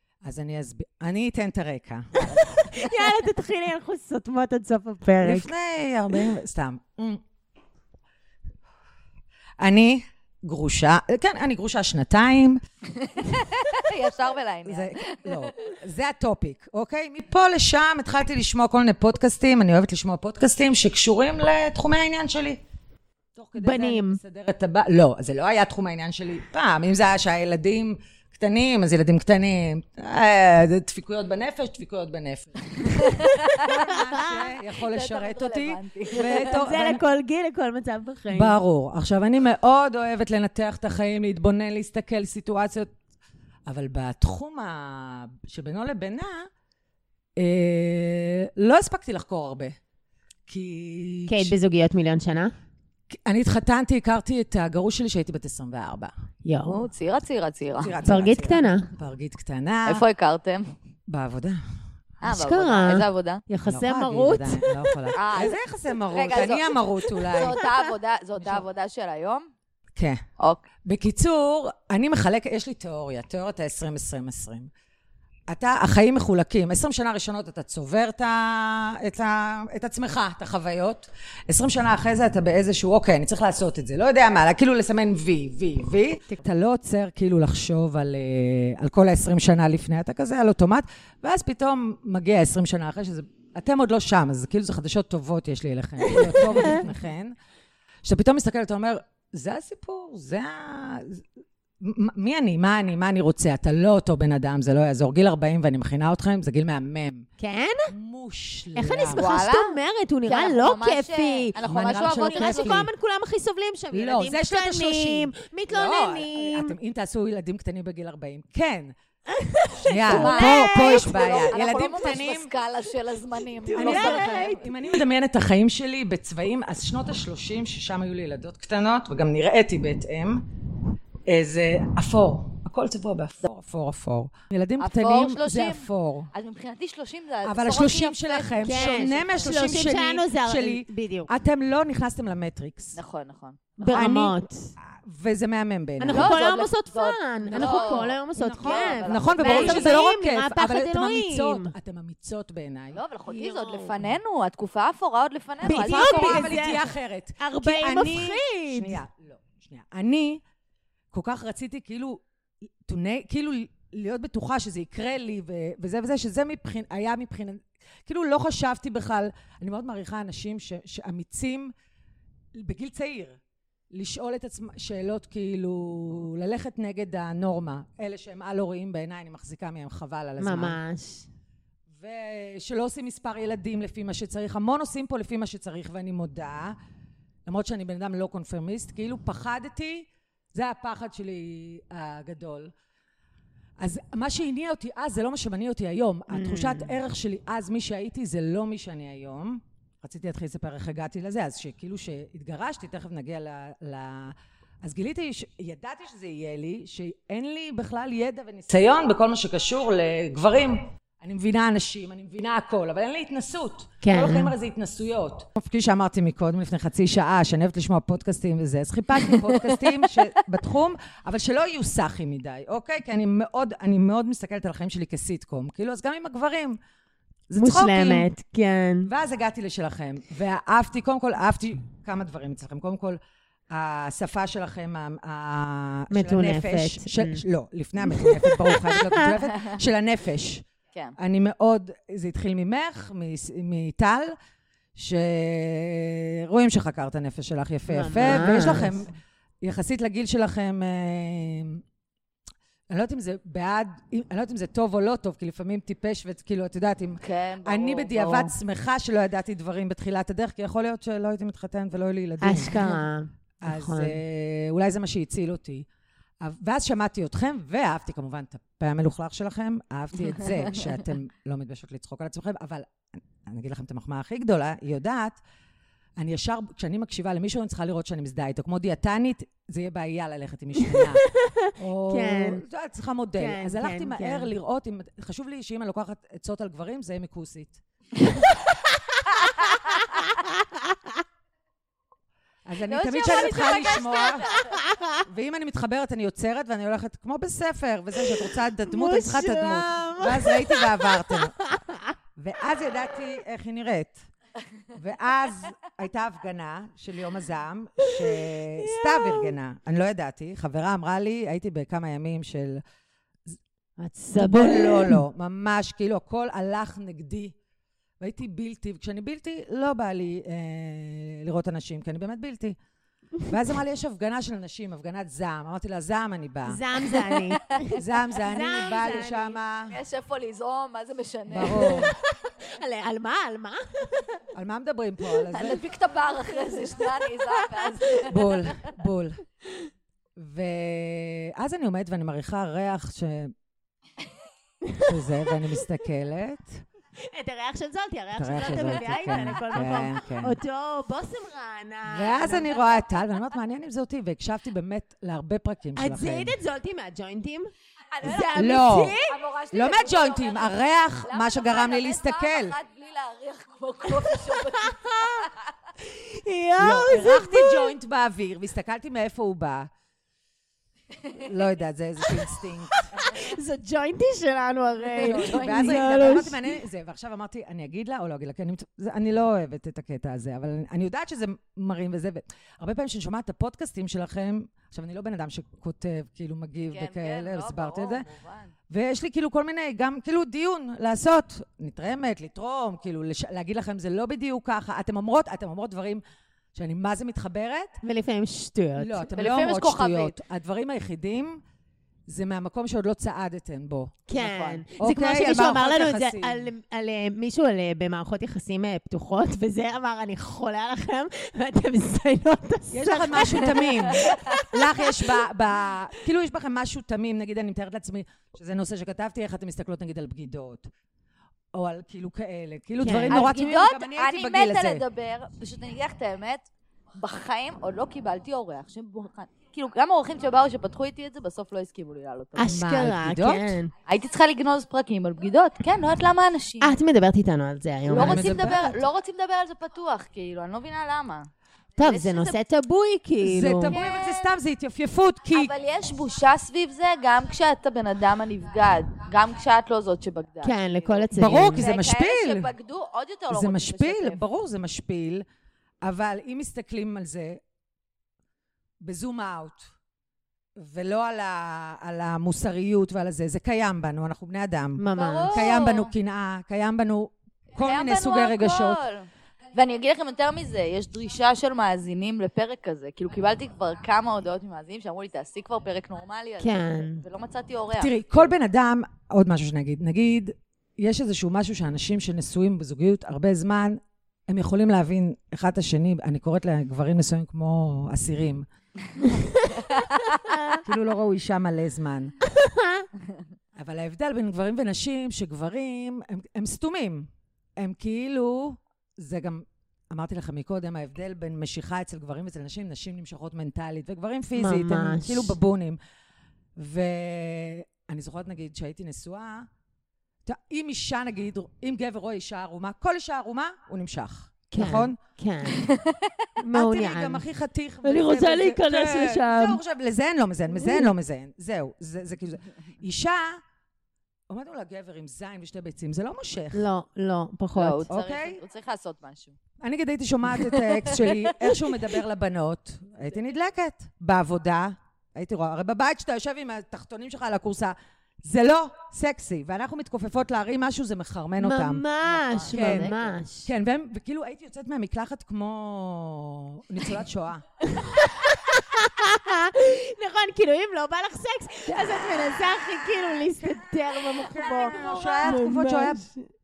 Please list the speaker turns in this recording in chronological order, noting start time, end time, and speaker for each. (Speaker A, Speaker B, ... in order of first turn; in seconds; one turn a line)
Speaker A: 0.2-2.4
Speaker B: 2.3-5.5
Speaker A: 5.2-7.2
Speaker A: 9.6-12.6
Speaker C: 13.0-15.5
Speaker A: 14.7-22.6
Speaker A: 23.4-37.0
Speaker B: 23.6-24.2
Speaker C: 33.0-33.9
Speaker B: 33.5-34.2
Speaker C: 34.9-36.6
Speaker B: 36.2-38.6
Speaker A: 38.3-42.9
Speaker A: 43.7-46.5
Speaker A: 47.4-49.8
Speaker A: 50.5-51.5
Speaker B: 51.3-52.5
Speaker A: 53.1-56.1
Speaker B: 56.5-56.8
Speaker C: 56.7-58.0
Speaker A: 57.8-60.0
Speaker B: 58.1-58.9
Speaker C: 59.9-60.8
Speaker A: 61.1-61.6
Speaker C: 62.2-63.4
Speaker B: 62.2-65.1
Speaker A: 63.6-67.6
Speaker C: 65.2-65.6
Speaker C: 66.1-66.8
Speaker B: 67.2-67.7
Speaker C: 67.3-69.5
Speaker A: 68.4-68.7
Speaker A: 70.9-74.7
Speaker A: 75.5-97.3
Speaker B: 96.1-96.8
Speaker A: 98.0-101.2
Speaker A: 101.8-107.2
Speaker B: 107.4-107.9
Speaker A: 107.9-109.2
Speaker B: 108.8-116.7
Speaker C: 109.2-112.8
Speaker A: 111.6-112.9
Speaker A: 113.9-118.9
Speaker B: 119.3-122.2
Speaker A: 119.8-122.5
Speaker C: 120.0-124.6
Speaker B: 123.6-125.0
Speaker A: 123.8-130.4
Speaker A: 131.3-136.3
Speaker C: 134.8-139.5
Speaker A: 137.4-143.0
Speaker B: 138.6-141.3
Speaker C: 143.0-143.6
Speaker B: 143.8-144.7
Speaker A: 143.9-144.4
Speaker A: 144.9-146.4
Speaker B: 146.0-151.7
Speaker C: 146.1-150.0
Speaker A: 147.5-153.0
Speaker C: 152.9-156.5
Speaker B: 153.3-154.0
Speaker B: 155.6-156.9
Speaker A: 155.6-160.4
Speaker B: 157.4-159.0
Speaker A: 161.1-162.2
Speaker A: 162.8-171.7
Speaker A: 172.6-173.4
Speaker A: 173.9-180.8
Speaker B: 180.4-181.3
Speaker A: 181.9-186.8
Speaker A: 187.5-192.7
Speaker A: 193.8-226.8
Speaker B: 196.3-197.0
Speaker B: 214.0-214.5
Speaker A: 227.5-228.3
Speaker B: 227.6-229.1
Speaker A: 229.1-233.2
Speaker A: 233.7-240.6
Speaker B: 236.1-237.4
Speaker B: 238.1-239.3
Speaker A: 241.2-244.3
Speaker A: 245.0-251.8
Speaker B: 247.9-249.0
Speaker A: 252.9-262.8
Speaker C: 257.2-258.5
Speaker B: 262.4-264.2
Speaker A: 263.6-265.9
Speaker A: 266.4-272.9
Speaker A: 273.4-275.4
Speaker A: 276.2-281.2
Speaker B: 280.8-282.6
Speaker A: 281.8-287.8
Speaker B: 283.4-284.5
Speaker B: 289.9-291.2
Speaker A: 292.7-294.5
Speaker C: 292.8-294.7
Speaker B: 294.5-295.2
Speaker A: 295.2-301.6
Speaker B: 298.4-302.1
Speaker A: 302.4-304.2
Speaker A: 304.9-312.8
Speaker B: 308.0-309.5
Speaker B: 314.0-315.2
Speaker A: 314.4-317.5
Speaker A: 318.2-322.8
Speaker A: 323.4-327.1
Speaker B: 326.7-329.6
Speaker A: 327.9-330.0
Speaker C: 329.9-332.1
Speaker A: 331.5-332.1
Speaker B: 331.8-334.4
Speaker A: 334.5-335.9
Speaker C: 335.5-338.6
Speaker B: 336.5-338.3
Speaker A: 338.3-339.4
Speaker A: 340.4-343.5
Speaker B: 344.9-345.5
Speaker A: 345.0-346.9
Speaker B: 347.3-352.7
Speaker A: 348.4-350.6
Speaker A: 352.1-356.6
Speaker B: 356.0-357.7
Speaker C: 358.1-358.6
Speaker B: 358.2-359.4
Speaker A: 358.3-359.2
Speaker C: 359.3-365.5
Speaker A: 359.7-362.8
Speaker B: 364.2-367.9
Speaker A: 366.8-369.9
Speaker A: 371.4-373.1
Speaker B: 373.1-376.8
Speaker C: 375.1-376.1
Speaker A: 375.2-388.3
Speaker C: 386.9-388.7
Speaker A: 388.9-396.2
Speaker A: 396.8-398.0
Speaker B: 398.0-399.3
Speaker A: 399.0-401.6
Speaker C: 399.3-400.4
Speaker A: 402.3-404.2
Speaker B: 404.3-415.4
Speaker C: 404.4-404.8
Speaker A: 405.0-406.7
Speaker A: 412.9-420.9
Speaker A: 421.7-425.0
Speaker B: 423.0-423.5
Speaker C: 423.3-426.7
Speaker C: 427.2-433.0
Speaker B: 432.6-433.9
Speaker A: 432.7-433.8
Speaker C: 434.1-437.0
Speaker B: 436.8-438.8
Speaker A: 438.1-439.0
Speaker C: 438.1-441.5
Speaker B: 442.0-444.0
Speaker C: 442.0-442.6
Speaker A: 443.4-445.7
Speaker C: 443.9-444.5
Speaker C: 445.5-454.4
Speaker B: 450.6-451.9
Speaker A: 451.4-452.7
Speaker A: 453.5-455.4
Speaker A: 456.0-457.6
Speaker A: 459.0-459.9
Speaker A: 460.8-469.0
Speaker B: 465.0-465.7
Speaker C: 465.1-466.1
Speaker C: 467.8-478.2
Speaker B: 476.6-477.2
Speaker A: 478.0-488.7
Speaker B: 490.4-490.8
Speaker A: 490.8-492.3
Speaker B: 492.5-493.1
Speaker A: 493.8-497.3
Speaker A: 497.8-506.0
Speaker B: 504.6-505.6
Speaker A: 506.8-509.7
Speaker A: 510.4-515.2
Speaker B: 514.7-515.9
Speaker C: 515.6-516.3
Speaker B: 516.6-517.5
Speaker A: 516.7-523.6
Speaker B: 518.0-519.8
Speaker A: 524.5-526.9
Speaker B: 526.7-528.1
Speaker C: 527.8-529.6
Speaker A: 528.1-528.6
Speaker A: 529.8-542.0
Speaker C: 530.5-532.2
Speaker B: 541.6-543.7
Speaker C: 542.3-543.4
Speaker A: 542.7-543.1
Speaker A: 543.6-547.6
Speaker B: 547.8-556.5
Speaker A: 553.6-556.2